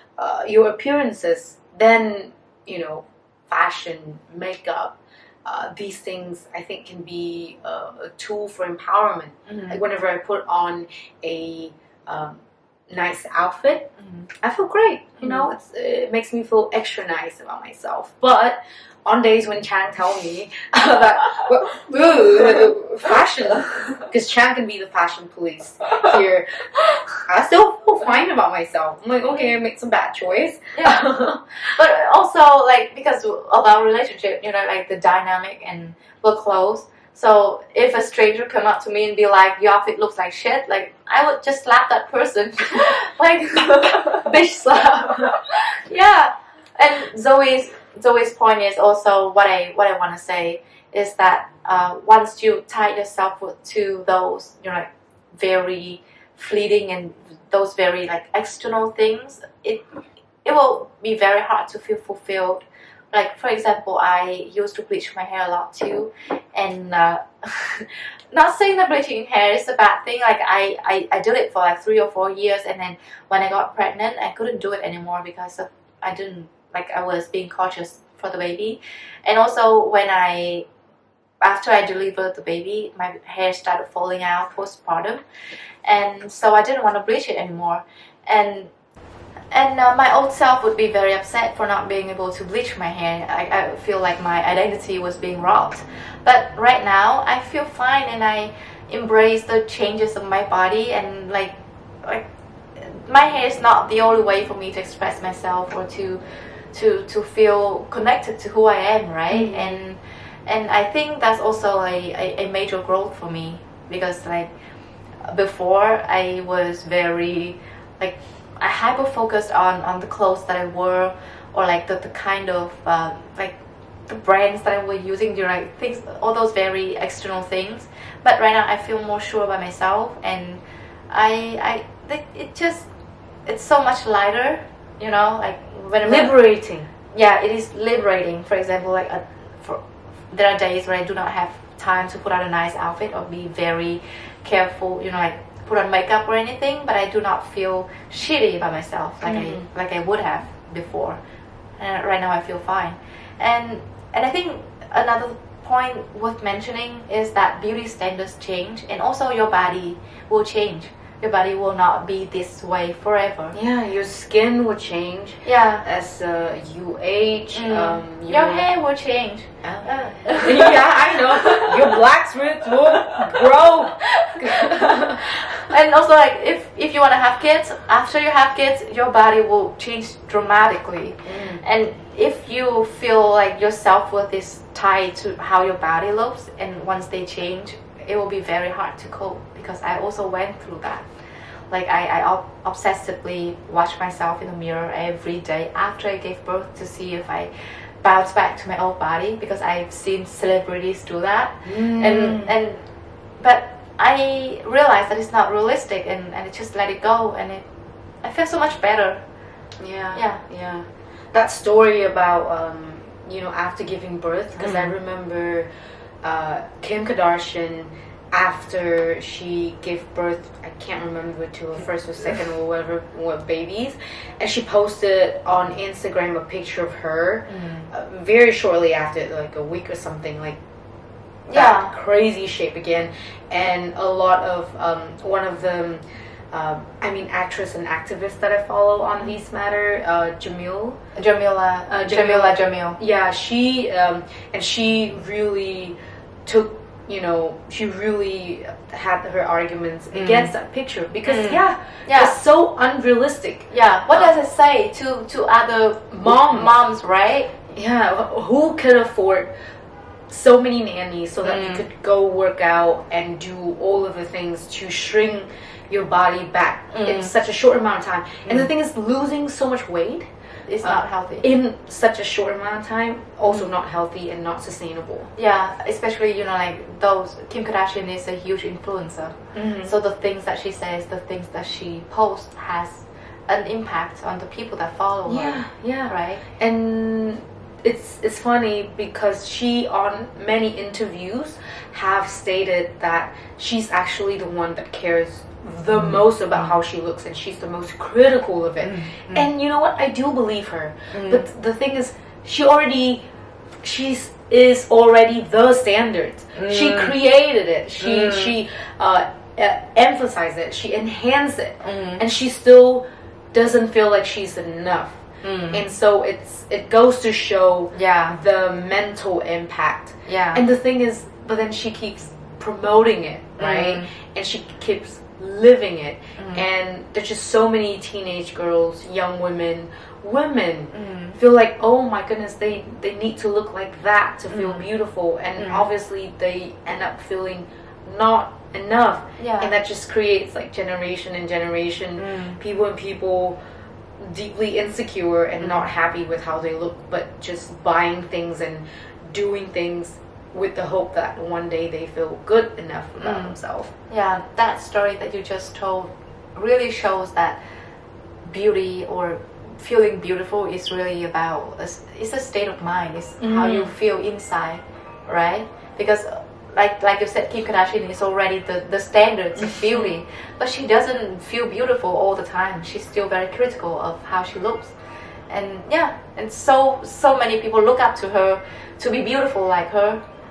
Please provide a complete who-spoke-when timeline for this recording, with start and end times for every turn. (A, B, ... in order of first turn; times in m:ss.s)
0:00.2-0:31.4 A
0:09.5-0:09.8 B
0:14.0-0:14.3 B
0:15.2-0:15.5 B
0:30.7-0:44.2 B
0:44.0-0:45.4 A
0:45.8-0:59.8 B
1:00.4-1:20.6 B
1:21.4-1:25.2 B
1:25.8-1:28.7 B
1:29.5-1:42.2 B
1:42.8-1:54.5 B
1:49.3-1:49.8 A
1:55.2-2:12.9 B
2:13.4-2:16.3 B
2:16.0-2:16.9 A
2:17.1-2:31.2 B
2:29.2-2:29.7 A
2:31.8-2:43.6 B
2:43.5-2:48.6 A
2:45.4-2:45.8 B
2:47.5-2:52.0 B
2:49.6-2:55.6 A
2:52.9-2:53.4 B
2:54.1-3:11.1 B
3:01.2-3:01.6 A
3:11.7-3:22.8 B
3:21.6-3:22.5 A
3:23.4-3:27.6 B
3:28.2-3:29.2 B
3:29.8-3:35.7 A
3:30.1-3:30.4 B
3:34.6-3:34.9 B
3:36.2-3:50.6 A
3:47.5-3:47.9 B
3:51.5-3:51.9 B
3:51.5-4:01.0 A
4:01.2-4:03.0 B
4:01.9-4:14.3 A
4:10.1-4:10.5 B
4:11.2-4:12.4 B
4:13.7-4:17.6 B
4:16.1-4:16.7 A
4:17.7-4:19.5 A
4:20.3-4:30.3 A
4:21.4-4:21.8 B
4:26.9-4:27.3 B
4:30.7-4:31.4 B
4:30.8-4:35.3 A
4:35.4-4:46.4 B
4:39.5-4:39.9 A
4:45.2-5:03.2 A
4:55.9-4:56.7 B
4:58.8-4:59.4 B
5:01.1-5:01.4 B
5:03.8-5:43.6 A
5:06.5-5:07.2 B
5:08.0-5:08.5 B
5:11.8-5:12.2 B
5:15.4-5:15.8 B
5:17.9-5:18.4 B
5:20.2-5:20.6 B
5:23.6-5:24.1 B
5:26.4-5:26.6 B
5:30.9-5:31.4 B
5:34.5-5:34.9 B
5:35.6-5:35.9 B
5:39.4-5:39.7 B
5:42.2-5:42.6 B
5:44.2-5:53.9 A
5:45.6-5:45.8 B
5:53.2-5:53.6 B
5:54.1-5:57.6 B
5:58.4-6:15.0 B
6:03.4-6:03.9 A
6:09.8-6:10.1 A
6:15.5-6:20.2 B